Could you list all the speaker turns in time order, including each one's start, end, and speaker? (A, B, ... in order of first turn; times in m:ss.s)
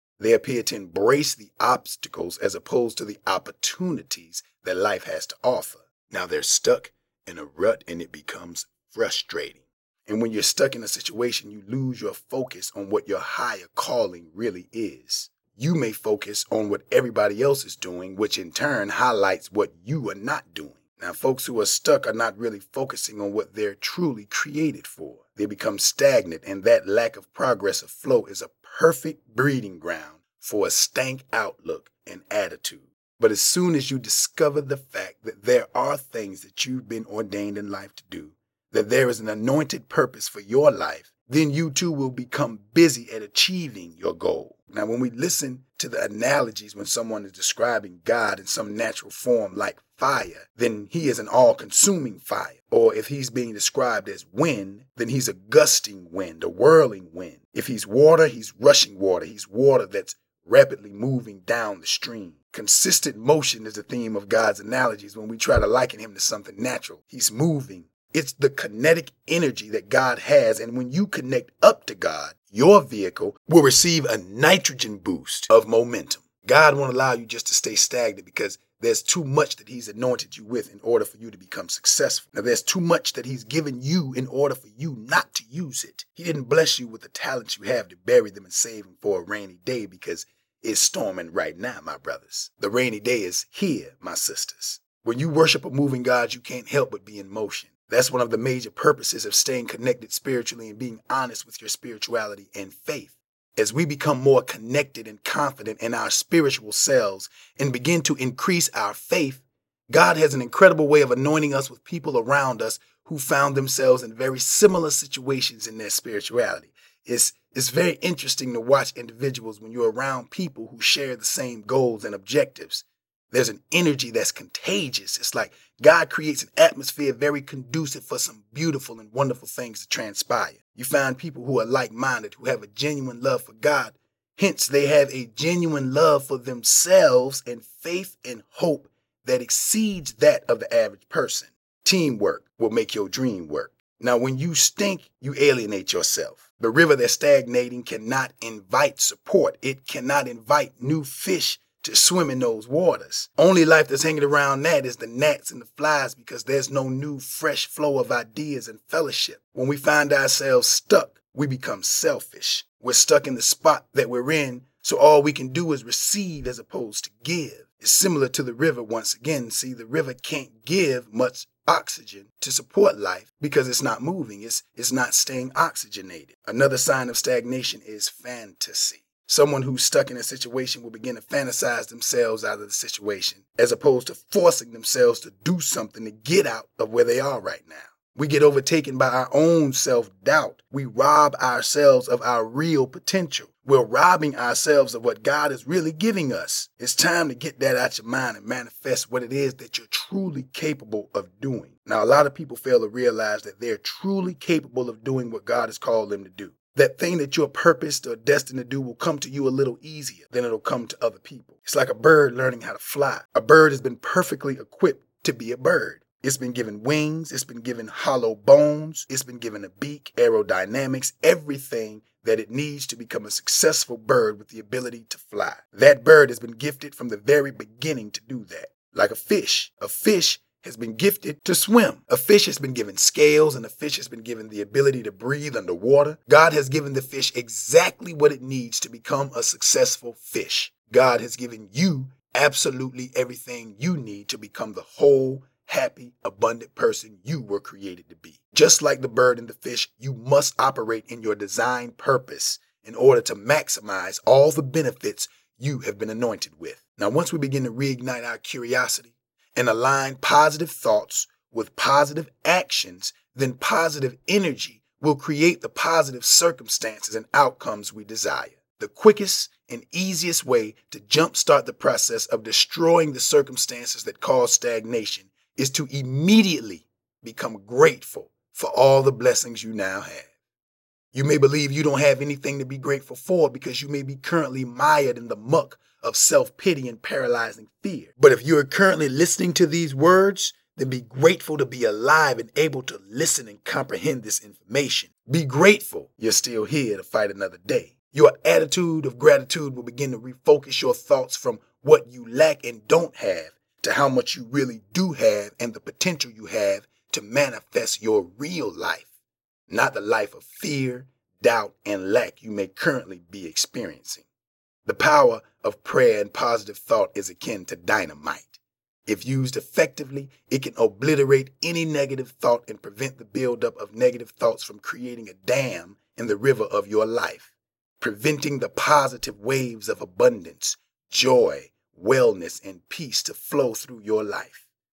0:00.2-4:40.3 A
4:41.1-5:09.1 A
5:09.7-5:14.2 A
5:14.8-5:34.6 A